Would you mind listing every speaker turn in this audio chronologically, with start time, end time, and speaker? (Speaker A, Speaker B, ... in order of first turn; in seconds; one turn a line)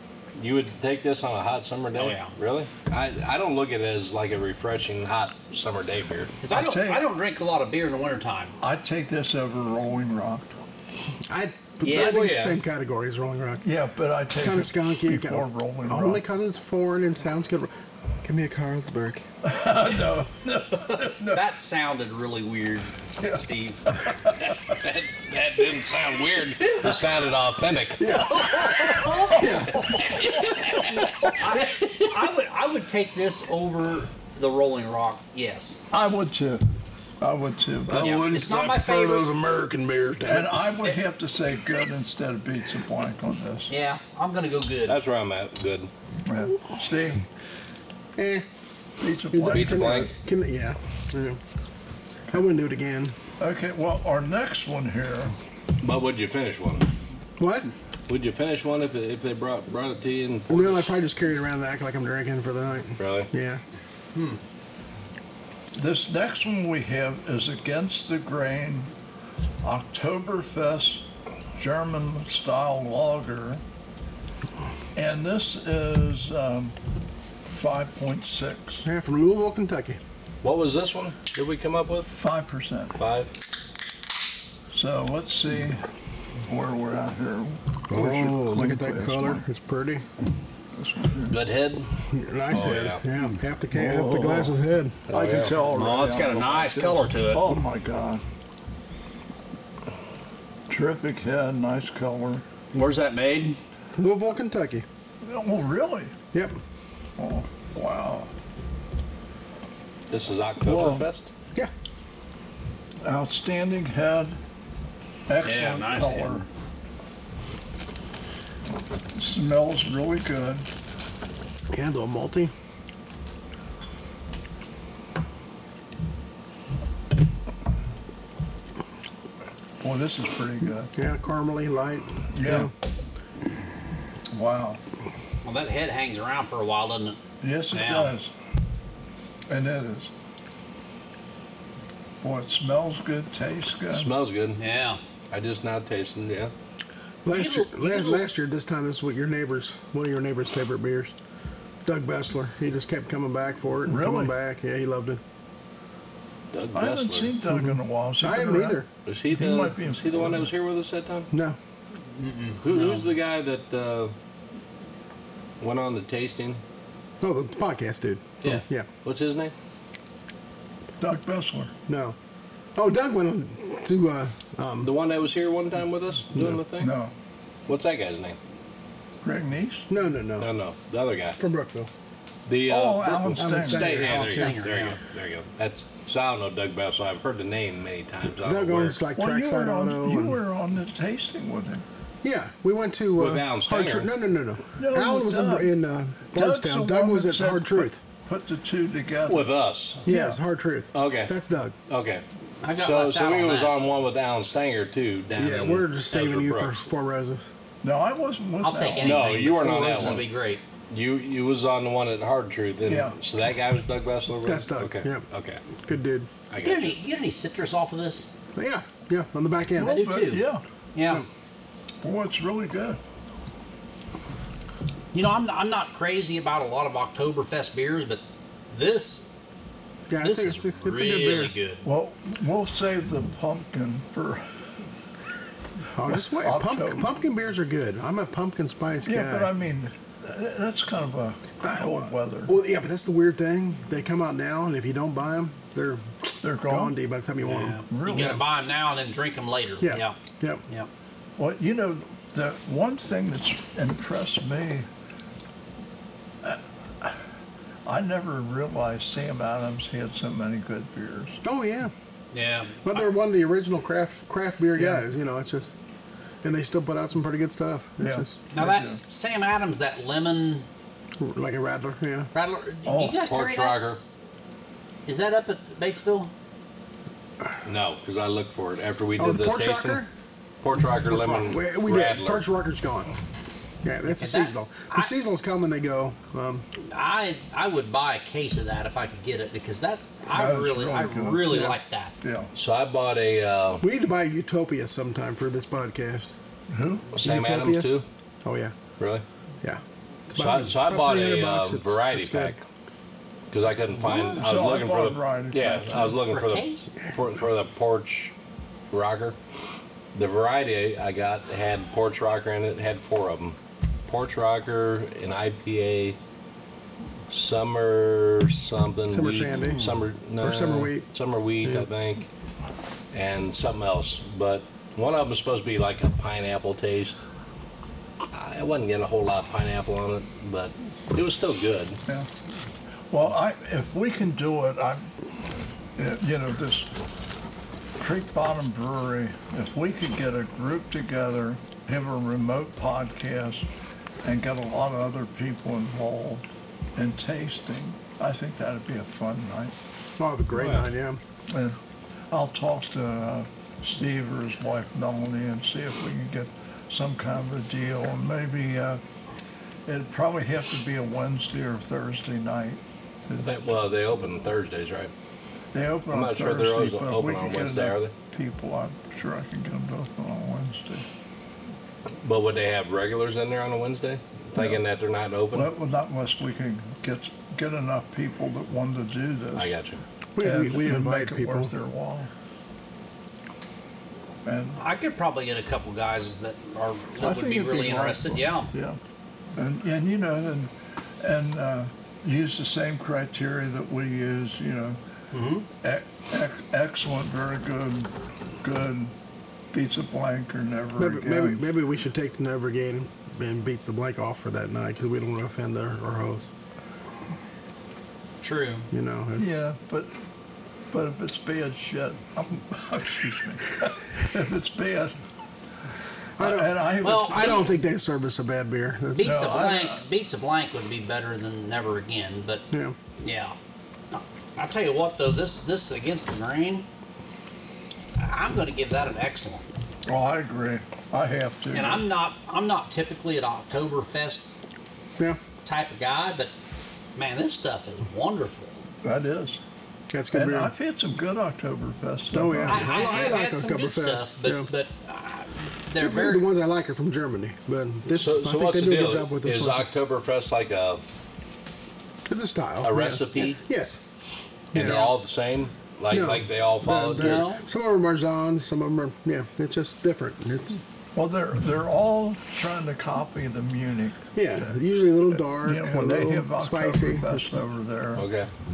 Speaker A: 0.4-6.3
Speaker B: 1.9-2.4
Speaker B: 6.4-8.6
Speaker C: 6.5-7.0
Speaker C: 8.6-10.6
Speaker D: 11.3-13.7
Speaker B: 11.8-12.3
Speaker A: 11.8-12.6
Speaker C: 13.6-16.2
Speaker D: 14.4-17.7
Speaker D: 18.2-19.3
Speaker C: 19.4-21.4
Speaker B: 21.1-23.8
Speaker C: 23.2-24.6
Speaker A: 24.4-28.3
Speaker D: 28.0-31.3
Speaker B: 28.2-29.6
Speaker C: 28.8-30.2
Speaker A: 29.9-31.9
Speaker B: 31.4-35.9
Speaker C: 35.9-36.6
Speaker C: 37.2-38.2
Speaker D: 37.9-40.6
Speaker B: 38.0-39.3
Speaker C: 40.3-43.7
Speaker B: 43.7-45.0
Speaker A: 44.9-45.9
Speaker C: 46.3-47.3
Speaker D: 48.2-48.5
Speaker C: 49.0-50.1
Speaker D: 49.3-51.4
Speaker A: 49.5-50.1
Speaker D: 52.3-53.2
Speaker C: 53.4-55.4
Speaker A: 55.8-56.9
Speaker D: 57.4-57.7
Speaker A: 58.1-60.9
Speaker D: 60.5-63.6
Speaker A: 63.0-63.3
Speaker B: 64.1-64.4
Speaker C: 65.7-68.9
Speaker C: 69.6-73.6
Speaker C: 75.0-76.8
Speaker C: 77.5-78.8
Speaker D: 78.8-80.0
Speaker A: 80.4-82.1
Speaker C: 82.1-83.0
Speaker A: 83.0-83.3
Speaker C: 84.7-85.9
Speaker C: 86.4-89.4
Speaker D: 87.9-90.0
Speaker C: 90.7-91.4
Speaker A: 91.3-91.9
Speaker D: 92.0-95.0
Speaker A: 92.5-93.0
Speaker C: 93.7-94.5
Speaker A: 95.1-95.6
Speaker C: 95.1-98.2
Speaker B: 95.7-97.5
Speaker C: 100.7-102.4
Speaker B: 102.7-103.6
Speaker D: 103.9-104.8
Speaker C: 105.2-106.2
Speaker C: 107.2-108.3
Speaker A: 110.1-111.3
Speaker C: 110.6-111.1
Speaker C: 113.0-114.4
Speaker C: 115.3-116.5
Speaker B: 115.4-116.5
Speaker C: 119.2-120.7
Speaker D: 121.7-122.5
Speaker C: 129.8-130.9
Speaker D: 131.0-132.7
Speaker C: 132.3-132.7
Speaker C: 134.3-134.8
Speaker B: 135.4-137.2
Speaker C: 137.4-138.3
Speaker B: 137.7-138.1
Speaker C: 139.5-140.1
Speaker C: 142.2-144.1
Speaker A: 143.9-144.6
Speaker B: 144.6-145.0
Speaker A: 145.3-146.5
Speaker D: 147.2-151.1
Speaker B: 147.3-148.2
Speaker D: 151.9-155.2
Speaker C: 153.8-154.3
Speaker A: 156.5-157.3
Speaker C: 156.7-160.5
Speaker D: 157.5-158.9
Speaker A: 159.1-161.3
Speaker D: 161.3-161.6
Speaker B: 162.2-163.1
Speaker A: 162.6-164.1
Speaker A: 165.6-166.6
Speaker D: 167.2-168.9
Speaker A: 168.4-169.5
Speaker C: 171.0-171.7
Speaker D: 171.9-172.2
Speaker D: 172.8-174.9
Speaker A: 174.8-176.9
Speaker D: 176.3-176.6
Speaker C: 176.8-177.1
Speaker A: 177.7-178.4
Speaker C: 179.2-179.9
Speaker D: 179.9-180.5
Speaker A: 180.4-181.4
Speaker D: 181.4-181.9
Speaker A: 182.5-189.0
Speaker C: 182.7-183.9
Speaker D: 183.4-184.6
Speaker B: 183.8-185.0
Speaker D: 188.3-190.4
Speaker C: 189.1-191.8
Speaker D: 192.2-198.0
Speaker A: 193.2-194.1
Speaker C: 194.8-195.8
Speaker C: 196.3-200.4
Speaker A: 199.3-200.0
Speaker D: 200.1-201.8
Speaker A: 200.9-201.3
Speaker A: 201.9-202.2
Speaker B: 202.6-203.7
Speaker A: 202.8-206.8
Speaker D: 205.4-207.5
Speaker C: 207.8-209.3
Speaker B: 208.6-210.6
Speaker A: 209.0-210.3
Speaker C: 209.9-210.2
Speaker A: 210.9-215.6
Speaker C: 212.9-213.2
Speaker D: 214.4-215.2
Speaker D: 215.9-216.3
Speaker A: 216.5-216.9
Speaker B: 216.6-218.3
Speaker D: 218.6-220.0
Speaker C: 219.8-220.6
Speaker B: 219.8-221.2
Speaker C: 222.0-223.0
Speaker B: 225.1-229.3
Speaker D: 230.1-231.5
Speaker B: 230.2-231.8
Speaker C: 231.8-234.8
Speaker D: 235.9-239.5
Speaker C: 236.1-237.1
Speaker C: 239.1-242.5
Speaker D: 241.6-248.4
Speaker C: 246.4-247.0
Speaker B: 247.4-250.2
Speaker C: 247.9-248.4
Speaker D: 249.8-250.6
Speaker C: 251.4-254.9
Speaker C: 256.4-257.3
Speaker C: 257.9-261.4
Speaker D: 261.4-261.9
Speaker B: 262.3-263.1
Speaker D: 262.8-265.8
Speaker C: 264.8-265.0
Speaker D: 266.4-268.4
Speaker C: 268.0-269.0
Speaker B: 268.5-270.7
Speaker D: 271.2-272.3
Speaker B: 272.3-273.8
Speaker C: 272.9-273.2
Speaker A: 273.2-274.0
Speaker B: 275.1-276.3
Speaker A: 277.6-280.0
Speaker D: 279.2-280.1
Speaker A: 280.6-282.4
Speaker B: 281.1-281.5
Speaker D: 281.4-283.2
Speaker D: 283.8-286.6
Speaker B: 284.1-285.1
Speaker B: 286.8-292.1
Speaker C: 290.3-292.5
Speaker A: 292.6-293.9
Speaker D: 293.8-296.3
Speaker C: 296.7-297.1
Speaker A: 297.1-298.1
Speaker D: 297.2-298.8
Speaker A: 299.0-299.2
Speaker D: 299.6-302.6
Speaker A: 300.4-302.6
Speaker A: 303.5-308.3
Speaker C: 303.9-306.2
Speaker B: 306.3-306.9
Speaker A: 308.9-309.4
Speaker A: 310.1-316.2
Speaker A: 317.3-322.3
Speaker D: 319.1-321.1
Speaker B: 319.6-320.0
Speaker A: 323.1-327.2
Speaker A: 328.3-332.0
Speaker C: 333.1-335.2
Speaker C: 336.0-336.9
Speaker C: 338.0-343.7
Speaker C: 344.2-349.8
Speaker D: 350.2-351.2
Speaker C: 350.6-350.9
Speaker C: 351.5-351.8
Speaker C: 352.3-359.0
Speaker C: 359.9-363.6
Speaker A: 363.4-365.1
Speaker C: 365.7-371.1
Speaker A: 366.1-368.1
Speaker A: 372.2-375.7
Speaker C: 375.5-379.7
Speaker A: 379.6-380.0
Speaker D: 380.4-381.7
Speaker C: 380.4-382.3
Speaker C: 384.4-384.8
Speaker B: 384.8-388.7
Speaker C: 387.2-389.0
Speaker C: 389.6-395.0
Speaker B: 395.3-395.7
Speaker C: 395.8-399.1
Speaker C: 399.7-401.6
Speaker D: 401.0-406.5
Speaker B: 408.4-408.9
Speaker D: 408.9-409.6
Speaker C: 409.4-410.1
Speaker C: 410.9-415.2
Speaker C: 416.4-417.7
Speaker D: 416.4-419.5
Speaker B: 417.0-417.7
Speaker B: 419.1-422.6
Speaker C: 419.2-420.0
Speaker D: 422.7-423.0
Speaker B: 423.2-423.6
Speaker B: 424.1-426.9
Speaker B: 428.2-429.6
Speaker C: 430.1-432.0
Speaker B: 431.7-434.5
Speaker B: 435.6-436.5
Speaker B: 437.2-438.8
Speaker C: 439.0-439.6
Speaker D: 440.1-440.7
Speaker C: 440.3-443.1
Speaker D: 442.3-444.7
Speaker B: 442.7-446.4
Speaker D: 446.0-449.9
Speaker A: 448.2-451.0
Speaker D: 452.3-454.0
Speaker A: 452.8-453.6
Speaker D: 454.7-455.0
Speaker A: 454.7-457.5
Speaker B: 454.8-455.1
Speaker D: 456.1-460.8
Speaker B: 457.2-457.6
Speaker C: 461.1-464.8
Speaker D: 464.4-467.6
Speaker C: 465.4-468.3
Speaker A: 468.2-468.5